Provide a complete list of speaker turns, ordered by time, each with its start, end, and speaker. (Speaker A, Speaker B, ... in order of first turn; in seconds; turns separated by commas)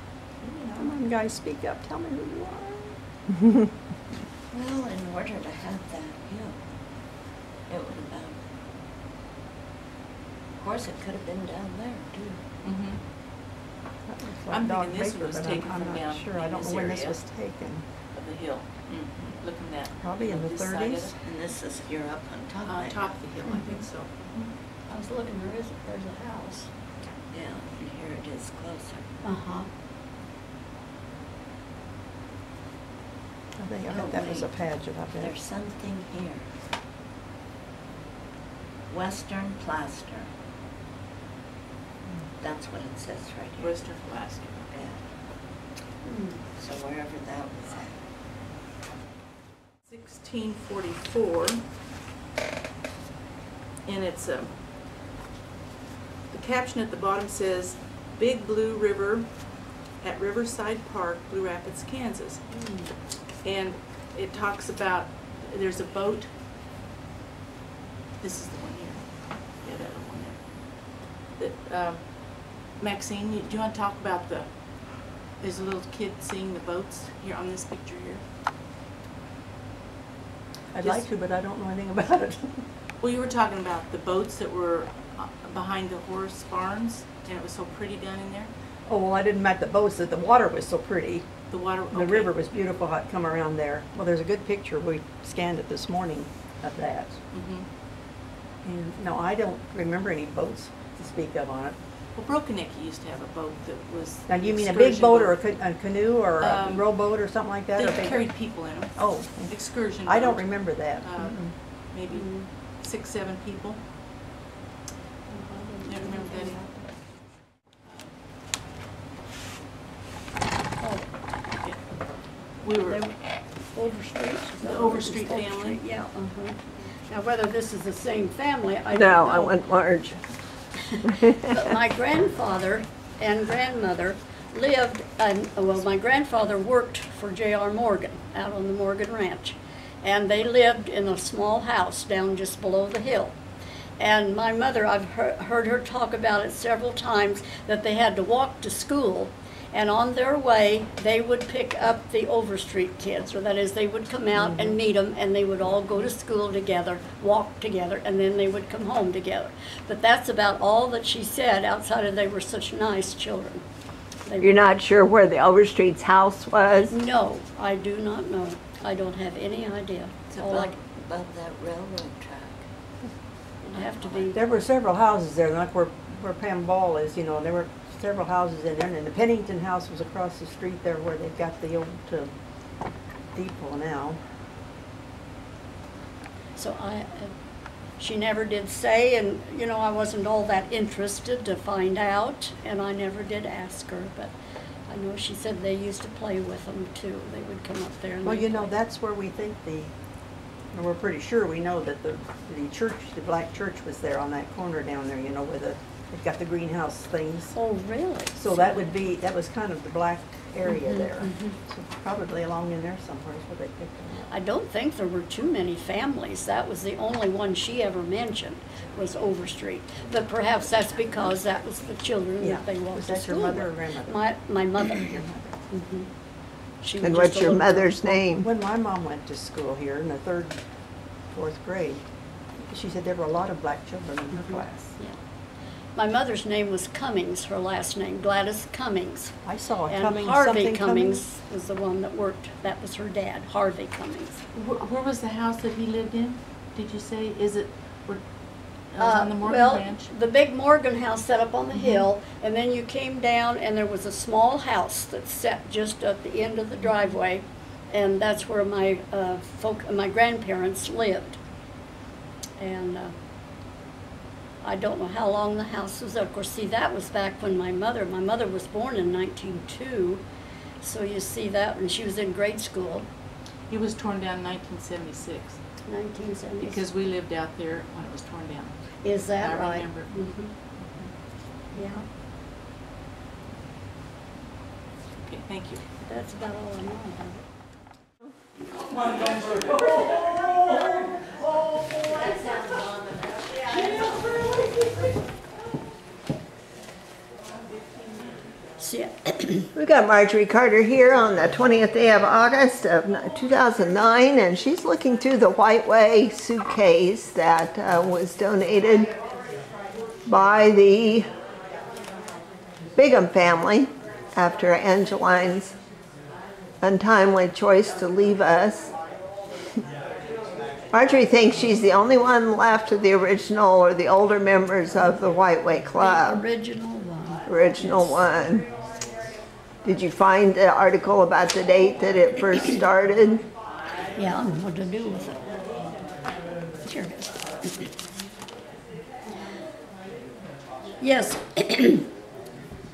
Speaker A: 0.6-3.0, Speaker B: 4.5-6.6, Speaker B: 7.7-8.4, Speaker B: 10.5-12.4, Speaker C: 12.6-13.0, Speaker A: 14.1-17.9, Speaker C: 14.5-17.2, Speaker C: 18.1-21.2, Speaker A: 20.0-21.2, Speaker B: 21.2-23.1, Speaker C: 22.6-24.5, Speaker D: 23.5-23.9, Speaker D: 24.9-26.7, Speaker B: 27.3-29.2, Speaker D: 29.2-29.7, Speaker A: 33.6-35.3, Speaker B: 33.9-34.6, Speaker B: 35.2-36.6, Speaker B: 38.9-40.3, Speaker B: 42.4-43.8, Speaker C: 43.6-44.7, Speaker B: 44.7-45.0, Speaker D: 46.0-46.5, Speaker B: 46.5-48.0, Speaker C: 49.9-51.6, Speaker C: 53.9-54.5, Speaker C: 56.3-62.5, Speaker D: 62.5-62.9, Speaker C: 63.4-66.3, Speaker C: 68.2-78.2, Speaker A: 80.7-82.7, Speaker C: 80.8-81.1, Speaker C: 83.0-88.5, Speaker A: 88.9-91.3, Speaker C: 91.5-92.3, Speaker A: 91.9-97.2, Speaker C: 97.3-97.7, Speaker A: 98.6-101.8, Speaker C: 102.2-105.4, Speaker A: 104.3-108.3, Speaker C: 106.4-106.9, Speaker C: 107.8-113.8, Speaker A: 109.0-111.6, Speaker D: 112.1-112.5, Speaker D: 115.3-116.9, Speaker C: 115.9-116.6, Speaker C: 117.9-118.2, Speaker D: 120.8-121.1, Speaker C: 121.6-123.0, Speaker D: 122.8-129.7, Speaker C: 124.6-125.8, Speaker E: 128.9-130.2, Speaker D: 130.9-143.4, Speaker E: 131.1-131.6, Speaker D: 144.0-163.6, Speaker A: 154.3-154.8, Speaker D: 164.3-164.6, Speaker E: 164.4-166.9, Speaker D: 166.9-170.8, Speaker B: 170.3-172.7, Speaker D: 173.6-174.4, Speaker B: 173.7-174.3, Speaker A: 174.3-182.3, Speaker A: 183.3-184.2, Speaker D: 186.6-187.3, Speaker D: 188.0-194.3, Speaker D: 194.9-198.8, Speaker A: 198.2-199.9, Speaker A: 200.7-207.6, Speaker D: 207.5-208.9, Speaker A: 208.4-214.3, Speaker D: 210.7-211.6, Speaker D: 214.3-225.2, Speaker B: 220.5-221.9, Speaker A: 222.4-224.3, Speaker A: 225.0-225.6, Speaker D: 225.7-226.1, Speaker D: 226.8-228.1, Speaker E: 227.0-228.5, Speaker A: 228.3-230.6, Speaker A: 231.3-232.0, Speaker A: 232.7-234.9, Speaker D: 234.5-235.2, Speaker D: 235.9-244.4, Speaker A: 239.4-241.2, Speaker C: 244.5-248.2, Speaker C: 248.9-250.1, Speaker D: 249.0-261.4, Speaker C: 251.7-252.0, Speaker D: 262.6-263.1, Speaker D: 264.6-270.2, Speaker D: 270.8-273.1, Speaker C: 273.7-275.6, Speaker D: 275.9-276.9, Speaker C: 276.6-278.9, Speaker D: 279.0-280.5, Speaker C: 279.4-280.3, Speaker D: 281.7-282.1, Speaker C: 285.2-285.8, Speaker D: 286.0-287.4, Speaker D: 298.8-299.7, Speaker E: 299.8-309.1, Speaker E: 310.3-311.3, Speaker E: 313.0-315.7, Speaker E: 316.8-318.9, Speaker E: 320.9-326.4, Speaker D: 326.0-328.2, Speaker E: 327.5-328.7, Speaker E: 329.8-333.4, Speaker D: 334.2-335.5, Speaker D: 336.8-337.9, Speaker D: 341.0-342.1